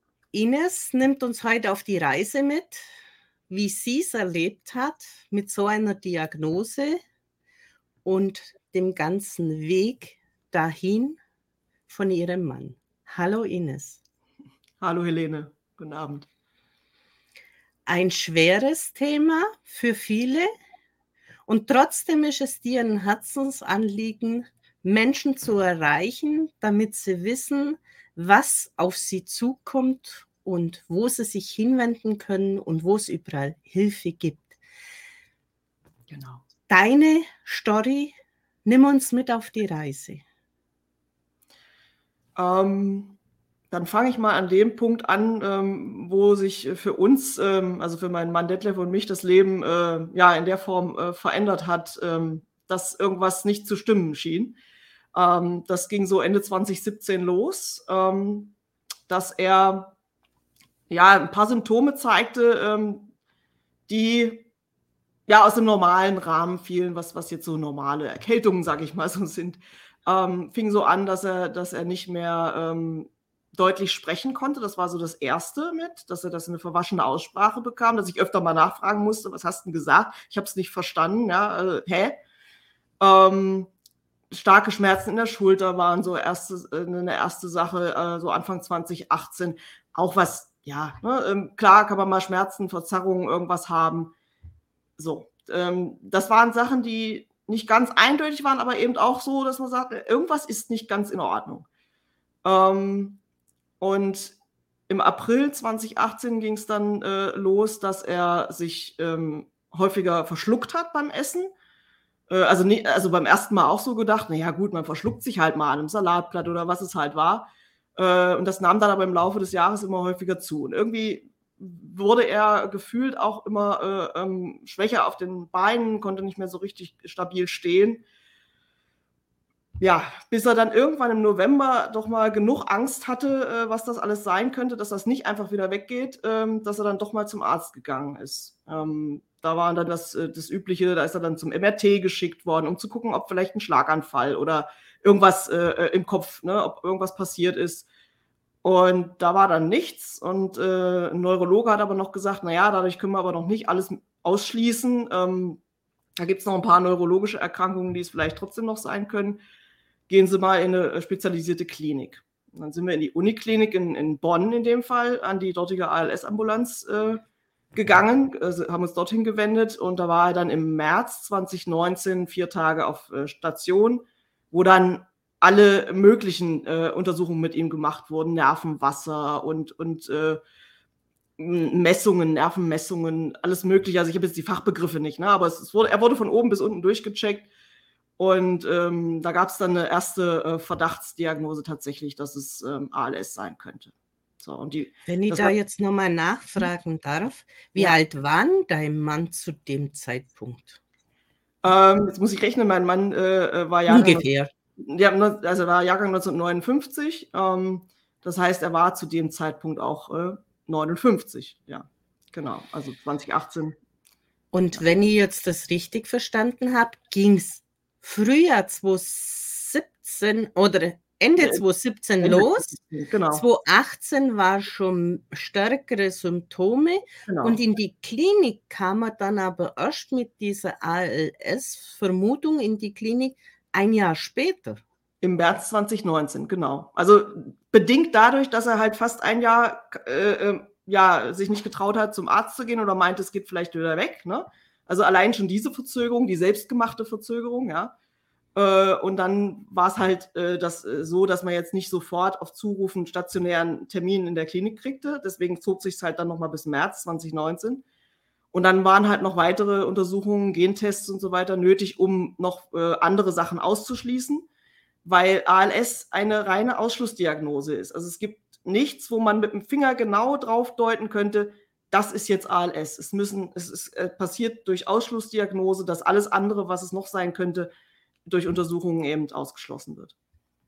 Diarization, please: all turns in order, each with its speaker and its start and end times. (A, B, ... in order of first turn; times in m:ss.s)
0:00.3-0:02.8 A
0:03.5-0:07.0 A
0:08.0-0:11.2 A
0:11.9-0:14.0 A
0:14.8-0:16.3 B
0:17.9-0:20.5 A
0:21.5-0:34.6 A
0:36.1-0:36.4 B
0:36.7-0:38.1 A
0:38.6-0:40.2 A
0:42.4-0:43.2 B
0:43.7-0:54.6 B
0:55.1-0:58.5 B
0:59.1-0:59.9 B
1:00.9-1:03.1 B
1:03.9-1:04.5 B
1:05.3-1:22.2 B
1:23.0-1:23.7 B
1:24.3-1:34.1 B
1:35.0-1:41.7 B
1:42.4-1:43.2 B
1:43.8-1:44.4 B
1:44.9-1:51.5 B
1:52.3-2:08.0 B
2:09.8-2:27.9 B
2:28.6-2:35.6 B
2:36.2-2:39.4 B
2:40.1-2:47.2 B
2:47.8-3:00.4 B
3:01.4-3:07.5 B
3:08.2-3:15.5 B
3:15.1-3:20.8 A
3:21.6-3:33.8 B
3:23.9-3:24.5 A
3:34.5-3:42.7 A
3:42.2-3:43.4 B
3:43.3-3:54.8 A
3:47.3-3:47.6 B
3:55.2-4:07.9 B
4:08.6-4:17.8 B
4:18.5-4:24.4 B
4:25.0-4:37.7 B
4:38.3-4:40.1 B